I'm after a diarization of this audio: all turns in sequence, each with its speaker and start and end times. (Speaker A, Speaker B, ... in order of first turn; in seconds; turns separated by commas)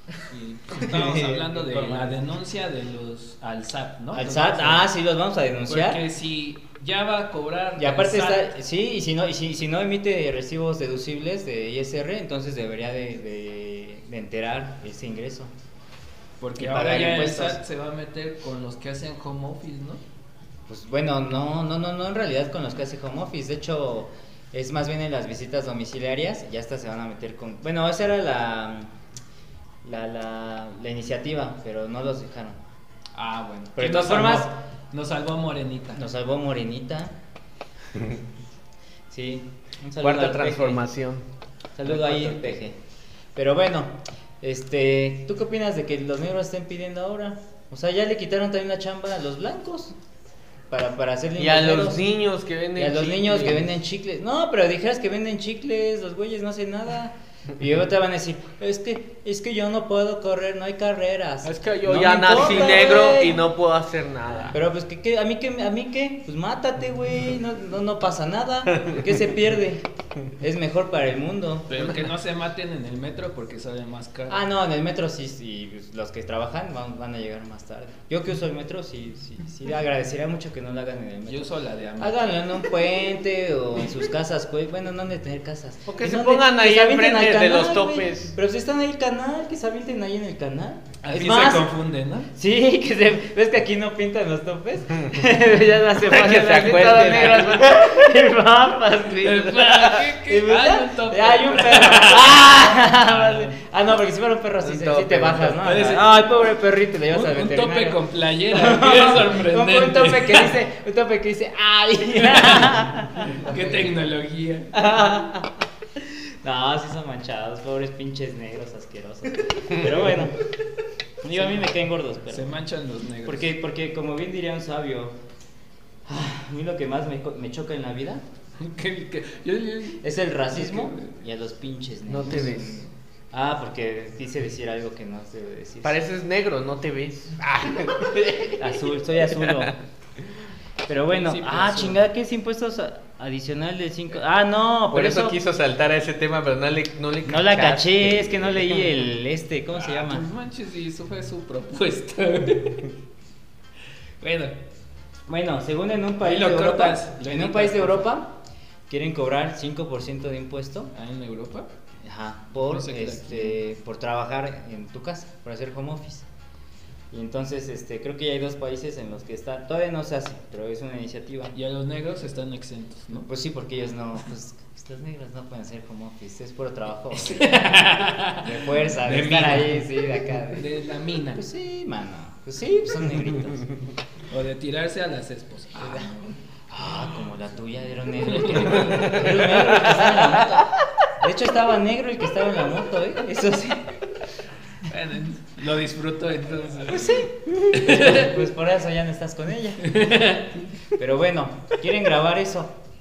Speaker A: 0.3-4.9, Speaker B: 0.7-2.1, Speaker B: 4.1-6.0, Speaker A: 5.7-8.5, Speaker B: 7.8-15.5, Speaker A: 16.4-20.0, Speaker B: 16.6-17.6, Speaker B: 20.7-28.9, Speaker B: 29.8-32.6, Speaker A: 33.1-36.0, Speaker B: 33.8-34.5, Speaker B: 35.9-37.1, Speaker B: 39.1-40.8, Speaker C: 40.0-41.2, Speaker B: 41.8-42.8, Speaker B: 43.3-49.9, Speaker B: 50.7-52.0, Speaker C: 51.4-53.7, Speaker B: 52.8-63.4, Speaker C: 61.4-64.6, Speaker B: 64.5-69.8, Speaker B: 70.4-71.8, Speaker A: 71.7-74.4, Speaker B: 74.3-91.7, Speaker A: 81.3-82.3, Speaker C: 85.9-88.3, Speaker A: 91.0-92.3, Speaker B: 92.3-113.8, Speaker C: 96.0-97.8, Speaker A: 99.2-103.6, Speaker C: 104.6-105.6, Speaker A: 105.6-106.1, Speaker A: 107.1-110.6, Speaker A: 112.1-114.7, Speaker B: 114.7-120.3, Speaker B: 121.2-122.5, Speaker A: 121.3-121.6, Speaker A: 122.3-123.5, Speaker B: 123.2-125.2, Speaker B: 126.0-128.2, Speaker A: 128.6-131.2, Speaker B: 130.0-136.0, Speaker C: 132.1-132.8, Speaker C: 135.8-138.6, Speaker B: 138.6-139.8, Speaker C: 139.4-139.7, Speaker B: 140.9-145.3, Speaker A: 141.1-142.0, Speaker C: 144.9-148.6, Speaker B: 147.2-150.2, Speaker A: 149.7-152.9, Speaker A: 154.2-154.6, Speaker B: 155.3-158.3, Speaker A: 156.2-158.0, Speaker B: 158.9-160.9, Speaker A: 160.9-161.7, Speaker B: 162.0-166.2, Speaker A: 162.6-163.6, Speaker B: 167.1-171.5, Speaker A: 171.5-173.3, Speaker B: 173.1-177.8, Speaker A: 177.1-181.4, Speaker B: 178.4-180.7, Speaker B: 181.3-183.7, Speaker A: 184.3-187.1, Speaker B: 185.8-186.1, Speaker B: 186.7-193.9, Speaker A: 188.3-189.6, Speaker A: 194.9-198.3, Speaker B: 196.9-199.9, Speaker A: 199.8-200.5, Speaker B: 200.9-202.7